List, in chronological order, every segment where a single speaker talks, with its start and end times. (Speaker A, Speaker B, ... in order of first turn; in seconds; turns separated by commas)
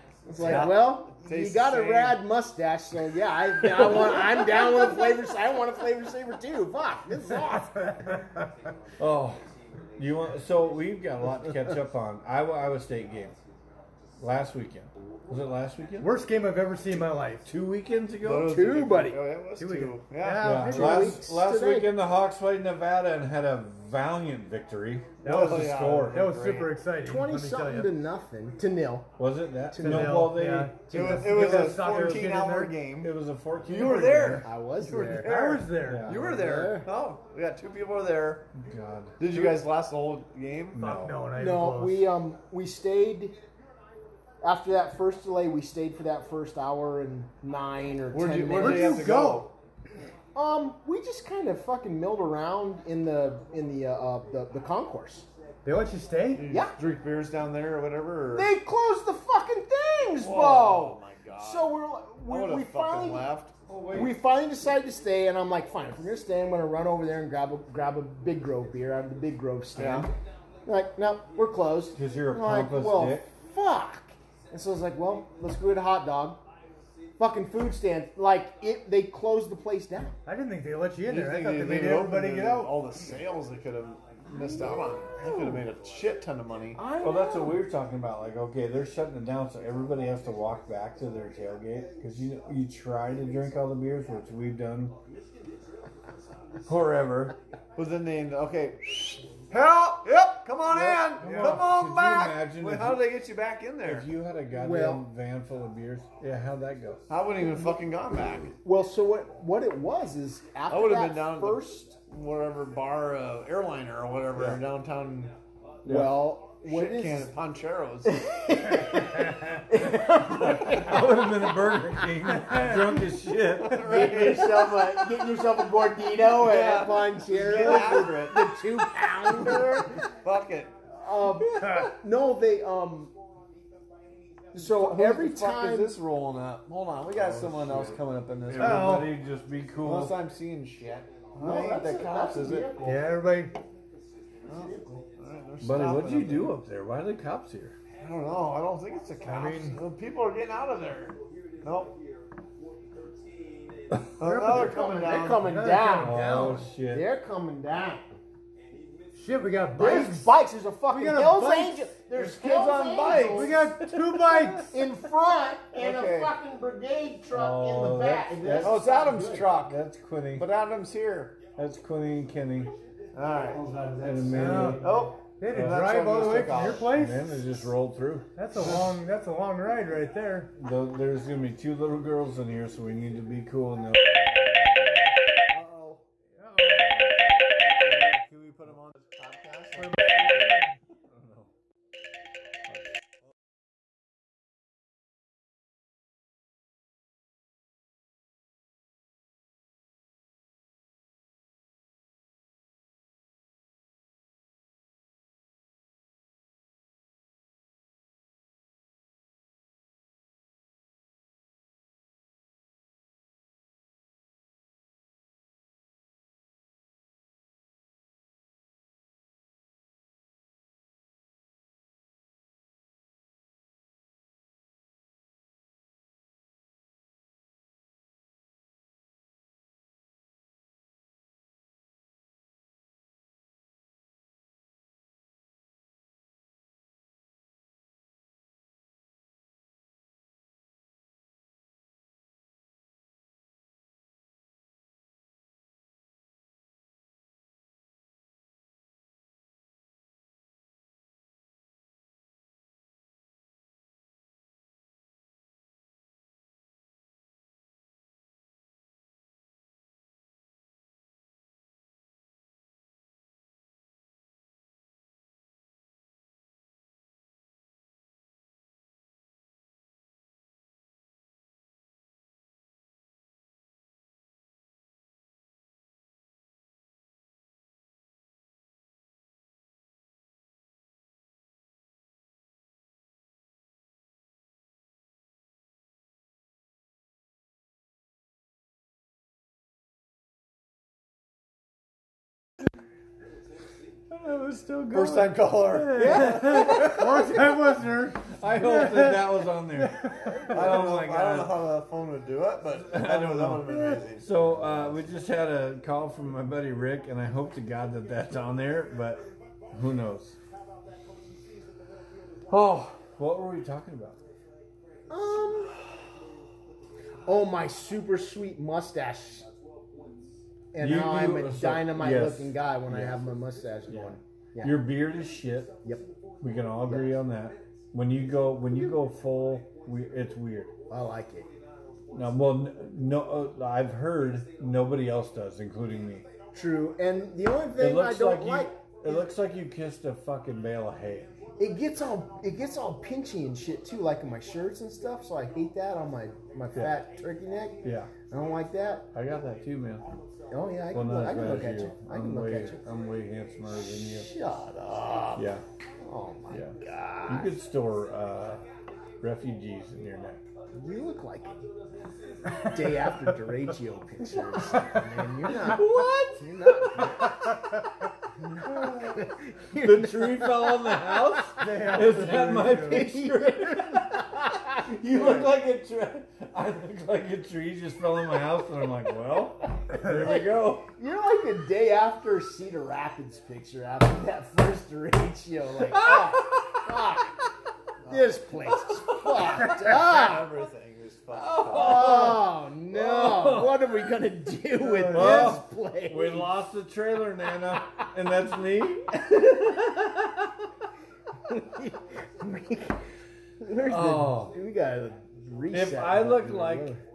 Speaker A: 0.2-8.2, Speaker B: 0.4-2.2, Speaker C: 9.0-9.4, Speaker C: 10.0-13.4, Speaker C: 14.2-16.1, Speaker D: 16.0-17.5, Speaker C: 17.4-18.6, Speaker B: 18.2-20.7, Speaker A: 18.3-19.2, Speaker D: 19.6-21.2, Speaker C: 20.4-26.3, Speaker A: 20.6-21.9, Speaker B: 25.2-26.7, Speaker D: 25.2-27.9, Speaker A: 27.0-29.1, Speaker C: 29.2-32.5, Speaker A: 29.7-30.4, Speaker D: 29.8-32.7, Speaker B: 30.9-38.4, Speaker C: 33.0-34.5, Speaker A: 34.4-35.3, Speaker D: 34.8-36.1, Speaker C: 35.8-36.5, Speaker A: 36.1-36.9, Speaker C: 38.5-39.6, Speaker B: 39.2-40.8, Speaker C: 40.7-41.2, Speaker D: 40.8-42.1, Speaker A: 41.4-43.4, Speaker A: 44.4-49.1, Speaker B: 48.1-49.5, Speaker D: 48.5-49.5, Speaker A: 50.3-55.3, Speaker D: 55.6-56.5, Speaker B: 56.3-58.5, Speaker A: 56.5-56.7, Speaker A: 58.3-63.3, Speaker B: 60.2-61.7, Speaker B: 62.2-63.5, Speaker C: 63.7-64.1, Speaker A: 63.9-70.1, Speaker B: 69.7-70.1, Speaker A: 70.6-76.4, Speaker C: 71.9-73.3, Speaker A: 77.2-80.2, Speaker D: 80.2-82.8, Speaker B: 81.0-86.8, Speaker A: 84.3-85.6, Speaker A: 86.7-87.6, Speaker C: 87.0-95.0, Speaker C: 96.6-97.3, Speaker B: 97.8-104.1, Speaker D: 101.2-101.7, Speaker C: 101.2-103.1, Speaker C: 103.8-107.0, Speaker A: 104.5-105.0, Speaker B: 107.1-108.5, Speaker A: 108.6-111.9, Speaker B: 110.7-115.3, Speaker C: 115.8-116.3, Speaker A: 115.8-117.3, Speaker B: 116.6-118.2, Speaker A: 118.2-122.0, Speaker C: 120.2-124.3, Speaker D: 122.5-122.8, Speaker B: 123.6-125.0, Speaker A: 123.7-130.0, Speaker B: 126.3-130.8, Speaker A: 130.9-133.1, Speaker B: 131.4-131.9, Speaker D: 131.6-131.9, Speaker A: 134.5-136.0, Speaker B: 134.5-139.1, Speaker C: 137.1-140.2, Speaker D: 138.5-139.2, Speaker B: 139.8-142.8, Speaker A: 141.4-143.0, Speaker D: 142.8-143.6, Speaker B: 144.5-146.5, Speaker A: 144.6-145.0, Speaker C: 145.6-147.8, Speaker B: 148.0-151.9, Speaker D: 149.2-149.8, Speaker B: 154.2-155.5, Speaker D: 154.2-156.7, Speaker A: 154.4-158.1, Speaker C: 156.0-157.1, Speaker D: 159.1-160.3, Speaker A: 159.7-163.7, Speaker D: 160.9-161.8, Speaker B: 162.1-164.6, Speaker D: 163.1-164.7, Speaker A: 164.7-169.5, Speaker B: 165.7-166.3, Speaker C: 167.3-168.9, Speaker B: 168.6-169.8, Speaker C: 169.5-170.5, Speaker B: 170.3-171.4, Speaker C: 171.6-172.7, Speaker B: 173.1-173.7, Speaker D: 173.5-177.4, Speaker C: 174.0-174.9, Speaker B: 174.6-176.9, Speaker C: 175.5-176.1, Speaker C: 176.8-178.3, Speaker D: 178.3-180.5, Speaker C: 180.5-184.8, Speaker B: 184.2-184.8, Speaker B: 185.5-186.1, Speaker D: 186.4-187.0, Speaker C: 186.7-187.6, Speaker B: 187.5-190.7, Speaker D: 189.8-190.8, Speaker C: 191.1-191.5, Speaker C: 294.1-301.5, Speaker B: 294.9-297.0, Speaker D: 295.7-300.7, Speaker B: 300.5-304.9, Speaker C: 302.8-303.7, Speaker D: 303.7-303.9, Speaker C: 304.2-310.4, Speaker C: 312.5-314.2, Speaker A: 315.1-315.8, Speaker A: 317.2-319.5, Speaker A: 320.7-324.8, Speaker C: 320.8-323.2, Speaker C: 323.9-325.7, Speaker C: 326.4-330.7, Speaker A: 326.9-327.1, Speaker A: 330.9-331.5, Speaker C: 332.1-336.3, Speaker A: 336.5-339.2, Speaker C: 337.8-341.3, Speaker A: 341.6-349.1, Speaker C: 346.7-347.0, Speaker C: 347.8-348.1, Speaker C: 349.1-350.1, Speaker A: 350.5-352.8, Speaker C: 350.9-354.3, Speaker A: 353.8-355.5, Speaker C: 355.4-355.6, Speaker A: 356.0-357.5, Speaker C: 356.5-356.8, Speaker C: 357.3-358.6, Speaker C: 359.2-360.4, Speaker A: 360.7-361.6, Speaker A: 362.6-367.6, Speaker C: 365.5-366.2, Speaker A: 368.4-375.4, Speaker C: 369.8-380.9, Speaker D: 371.6-373.1, Speaker A: 380.9-387.4, Speaker B: 388.1-388.3, Speaker A: 388.1-390.6, Speaker B: 389.5-392.3, Speaker C: 391.3-393.9, Speaker A: 391.7-396.5, Speaker D: 394.8-395.6, Speaker C: 395.1-399.2, Speaker A: 401.5-403.0, Speaker A: 403.6-407.0, Speaker C: 403.8-404.6, Speaker C: 405.7-406.9